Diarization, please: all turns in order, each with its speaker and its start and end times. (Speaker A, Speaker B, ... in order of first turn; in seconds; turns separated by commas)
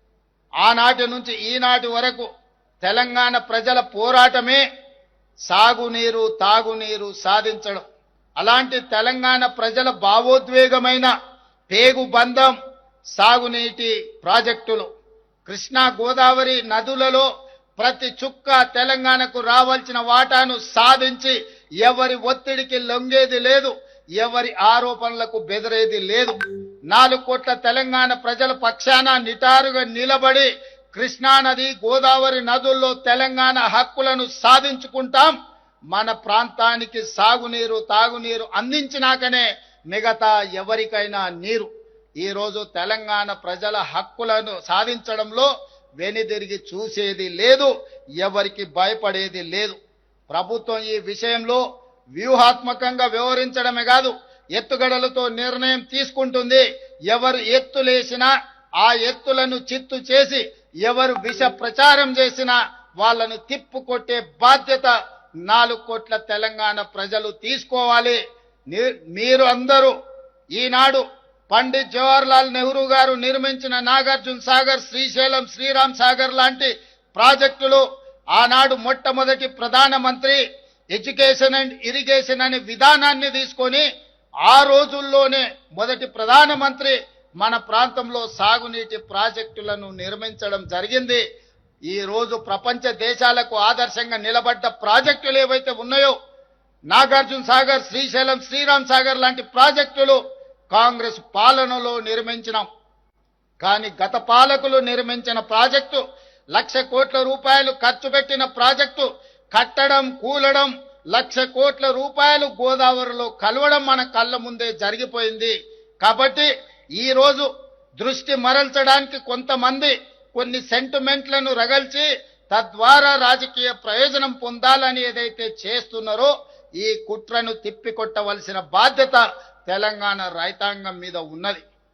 Speaker A: 0.6-2.3, Speaker A: 2.8-4.6, Speaker A: 5.5-7.8, Speaker A: 8.4-11.1, Speaker A: 11.7-12.5, Speaker A: 13.2-14.9, Speaker A: 15.4-17.2, Speaker A: 17.8-26.4, Speaker A: 26.9-35.3, Speaker A: 35.9-41.7, Speaker A: 42.2-45.5, Speaker A: 46.0-49.8, Speaker A: 50.3-51.6, Speaker A: 52.1-58.3, Speaker A: 58.8-64.9, Speaker A: 65.5-68.2, Speaker A: 68.7-69.9, Speaker A: 70.5-77.8, Speaker A: 78.3-80.4, Speaker A: 80.9-83.8, Speaker A: 84.5-91.2, Speaker A: 91.9-96.1, Speaker A: 96.9-100.2, Speaker A: 100.7-102.6, Speaker A: 103.6-106.0, Speaker A: 106.5-131.6